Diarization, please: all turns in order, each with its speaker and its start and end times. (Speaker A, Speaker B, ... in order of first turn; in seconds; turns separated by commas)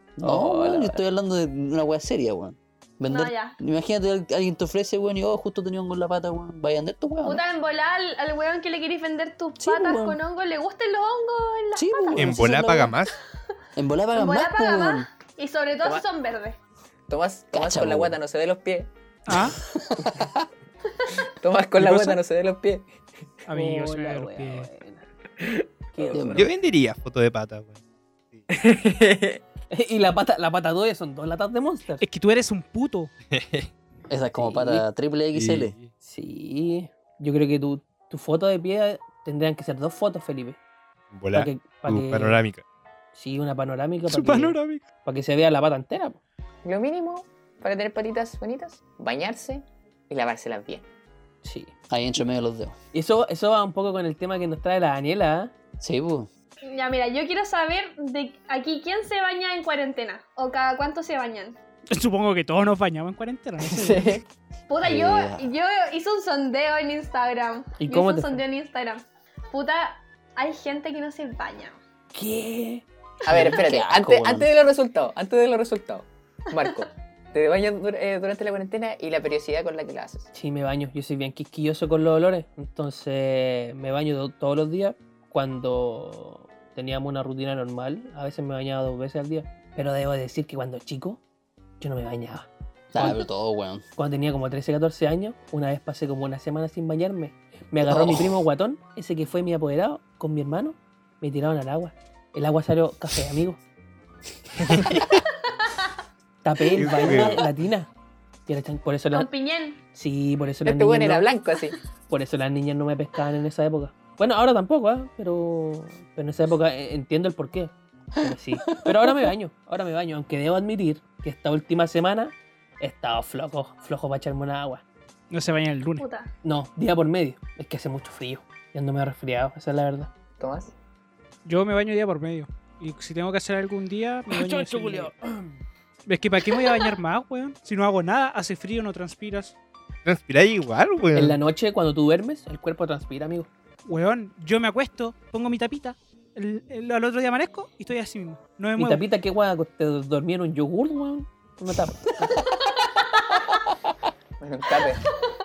Speaker A: 0.2-7.4, Speaker B: 0.2-1.0, Speaker C: 3.1-3.6, Speaker C: 7.2-12.3, Speaker A: 9.6-10.2, Speaker A: 11.8-12.9, Speaker D: 12.2-13.1, Speaker A: 13.8-15.1, Speaker C: 14.1-16.6, Speaker E: 17.1-18.9, Speaker A: 17.5-18.1, Speaker F: 19.3-19.6, Speaker A: 19.6-20.4, Speaker E: 21.3-22.9, Speaker F: 21.8-22.2, Speaker F: 23.4-24.7, Speaker B: 23.5-26.5, Speaker A: 26.1-26.5, Speaker D: 26.3-27.8, Speaker E: 28.5-29.4, Speaker B: 29.7-32.0, Speaker F: 32.0-33.1, Speaker D: 33.3-33.7, Speaker A: 34.1-35.7, Speaker B: 34.3-34.9, Speaker D: 35.3-35.9, Speaker B: 36.0-40.6, Speaker D: 41.1-42.6, Speaker B: 41.3-42.4, Speaker B: 43.1-46.2, Speaker F: 44.0-44.8, Speaker E: 46.6-50.8, Speaker B: 51.4-51.7, Speaker A: 51.9-52.8, Speaker B: 52.9-55.5, Speaker A: 55.8-56.3, Speaker C: 56.7-61.6, Speaker F: 61.9-64.1, Speaker E: 63.6-64.2, Speaker C: 64.7-71.8, Speaker A: 64.8-65.5, Speaker B: 67.8-68.4, Speaker B: 72.1-72.8, Speaker E: 73.2-80.3, Speaker A: 73.3-74.5, Speaker B: 80.3-91.2, Speaker B: 91.8-93.3, Speaker A: 92.9-93.8, Speaker B: 94.0-103.6, Speaker A: 97.8-98.4, Speaker D: 104.7-105.0, Speaker B: 106.4-107.9, Speaker D: 106.7-107.4, Speaker B: 108.5-109.3, Speaker C: 109.1-109.8, Speaker B: 109.9-111.3, Speaker E: 110.6-111.8, Speaker B: 112.1-124.8, Speaker A: 118.8-119.2, Speaker F: 125.3-126.0, Speaker C: 126.0-126.3, Speaker B: 126.4-130.1, Speaker E: 130.4-130.7, Speaker F: 131.4-135.1, Speaker B: 134.3-135.5, Speaker F: 136.1-139.5, Speaker D: 140.0-141.4, Speaker B: 141.1-143.5, Speaker F: 143.8-149.0, Speaker B: 148.8-152.4, Speaker E: 154.4-155.0